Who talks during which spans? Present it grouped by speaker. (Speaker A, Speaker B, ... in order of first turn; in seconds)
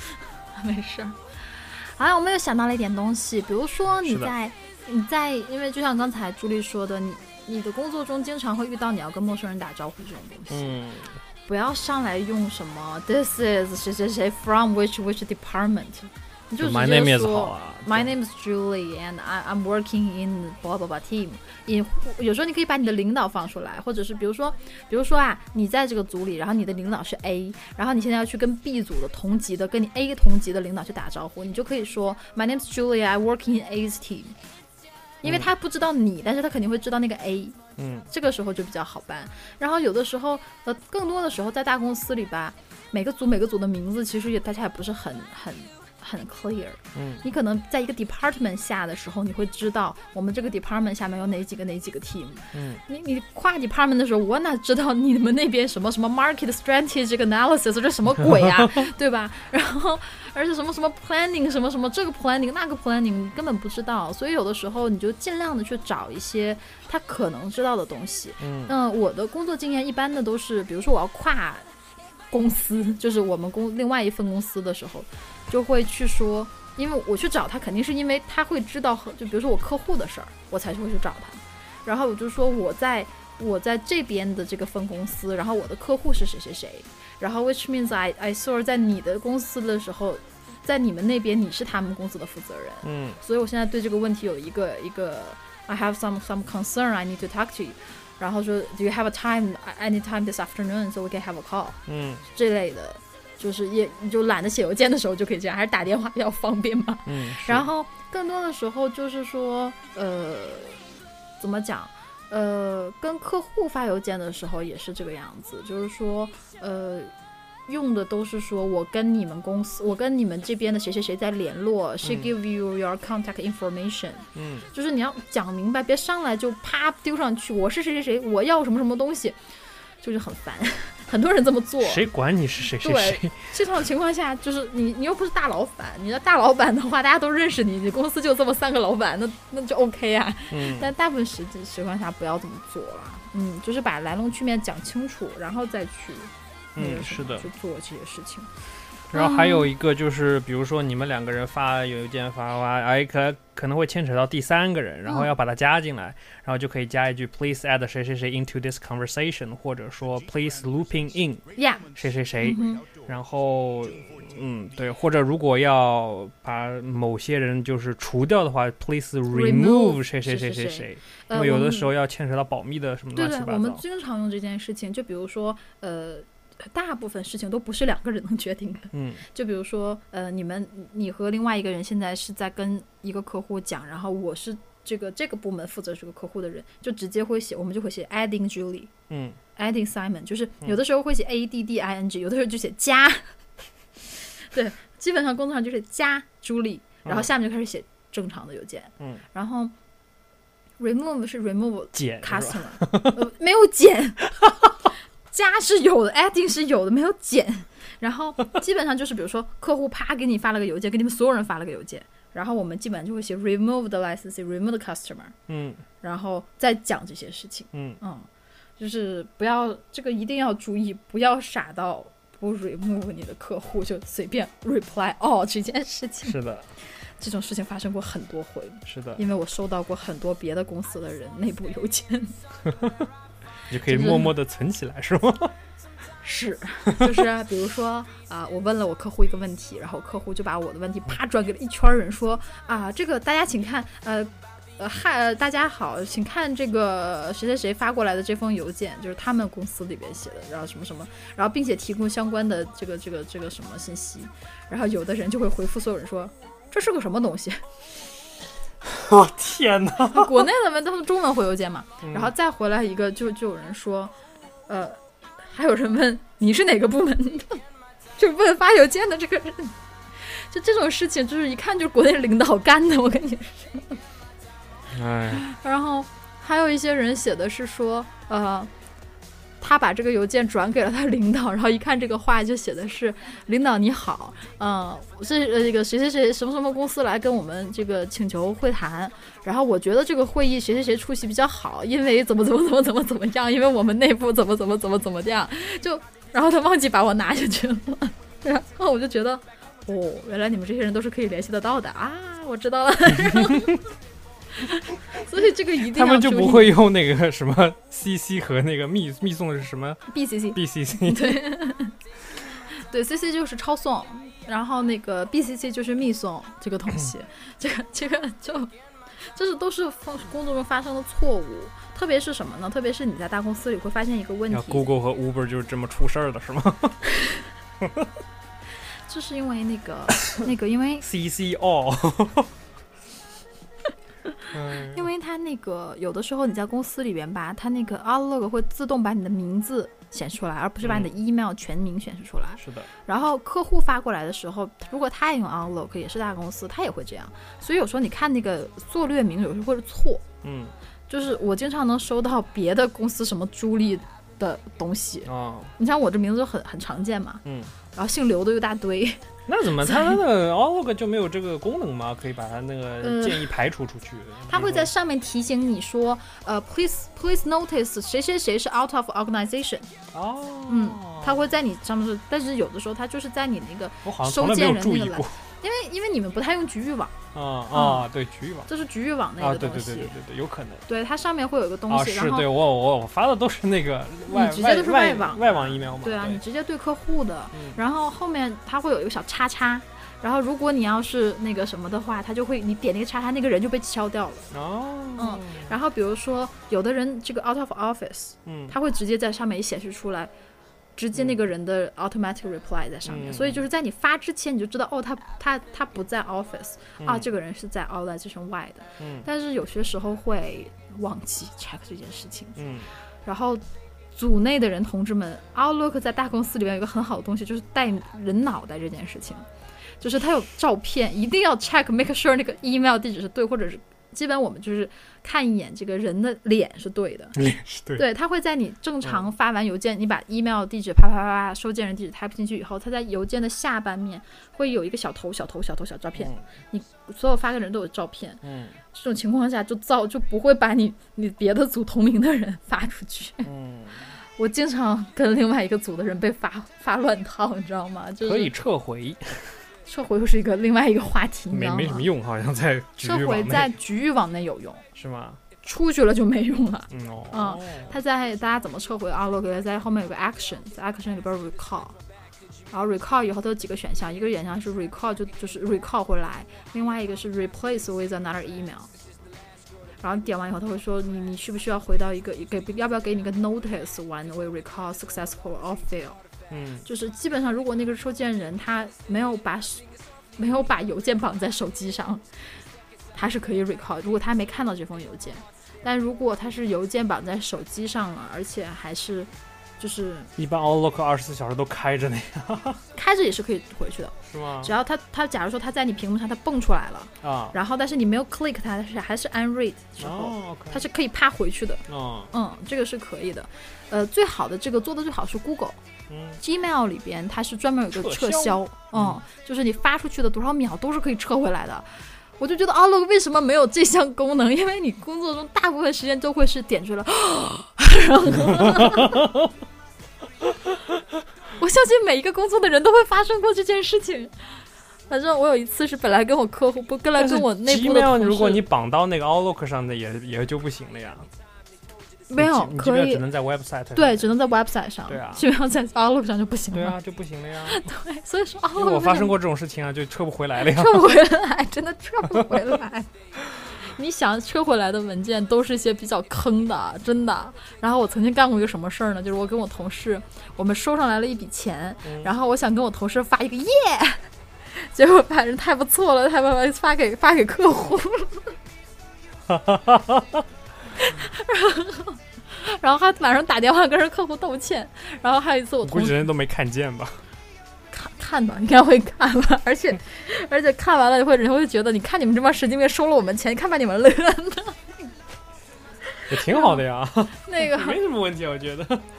Speaker A: 0.5-10.8, 11.5-34.4, 35.2-71.7, 72.3-110.8, 111.4-117.1, 117.7-129.4, 130.0-132.1, 132.7-148.5, 149.1-149.7, 155.1-155.3, 161.6-162.9, 169.3-171.9, 173.1-188.9, 189.6-193.3, 194.5-199.7, 200.8-204.7, 205.3-215.3, 216.0-232.4, 233.8-234.3, 236.2-257.6, 260.0-264.1, 264.7-267.6, 268.2-274.0, 275.3-278.7, 279.6-303.8, 304.6-306.8, 310.1-311.9, 312.7-324.9, 329.1-331.1, 334.7-350.3, 351.1-357.4, 357.9-359.2, 359.8-360.2, 363.0-363.6, 364.5-369.9, 370.7-377.2, 377.7-378.1, 378.7-380.1, 380.9-382.5, 384.3-394.5, 395.2-400.3, 401.0-412.6, 413.2-413.6, 414.1-419.5, 420.0-427.4, 427.9-443.5, 444.4-448.5, 449.9-452.1, 453.0-454.9, 455.6-462.0, 462.7-468.9, 470.0-476.2, 476.9-479.8, 480.4-482.2, 483.1-490.3, 492.9-505.8, 506.4-519.3, 521.6-524.3, 525.1-528.7, 532.3-533.3, 533.9-537.0, 537.7-539.4, 540.6-543.1, 543.8-558.6, 561.0-566.3, 567.9-575.0, 576.1-576.8, 577.4-578.0
Speaker B: 4.0-4.3, 10.5-11.2, 16.6-18.1, 37.8-38.1, 47.0-47.2, 52.5-52.8, 68.4-68.8, 92.8-93.2, 101.9-102.2, 107.1-107.7, 122.0-122.3, 124.3-124.7, 131.8-133.5, 140.5-140.9, 146.8-147.5, 149.1-173.8, 178.9-179.2, 189.1-189.4, 201.9-203.2, 215.5-215.8, 217.7-218.0, 226.2-226.7, 228.9-229.2, 232.7-233.1, 233.7-235.5, 258.8-260.5, 262.0-262.3, 274.9-275.4, 305.8-311.4, 324.5-327.0, 327.8-328.1, 331.0-332.5, 334.5-335.1, 340.8-341.1, 342.6-342.9, 350.4-350.7, 355.3-355.7, 357.4-357.7, 359.5-364.9, 370.1-371.5, 374.1-375.4, 377.3-378.7, 379.4-380.9, 381.9-386.4, 387.5-387.8, 394.5-395.7, 398.5-398.8, 401.1-401.4, 403.1-403.6, 407.0-407.3, 409.0-409.3, 412.6-412.9, 427.4-428.1, 436.2-436.4, 438.4-438.8, 443.4-444.0, 448.2-449.6, 451.5-453.8, 454.9-455.4, 456.9-458.0, 476.5-476.9, 490.4-492.8, 494.3-494.7, 497.2-497.6, 500.0-500.8, 501.9-502.3, 506.1-506.4, 507.9-509.2, 518.5-519.5, 527.2-531.3, 532.4-534.3, 535.1-535.5, 536.7-537.9, 538.8-541.0, 542.4-542.6, 552.0-552.3, 559.5-560.5, 565.8-567.2, 576.3-579.1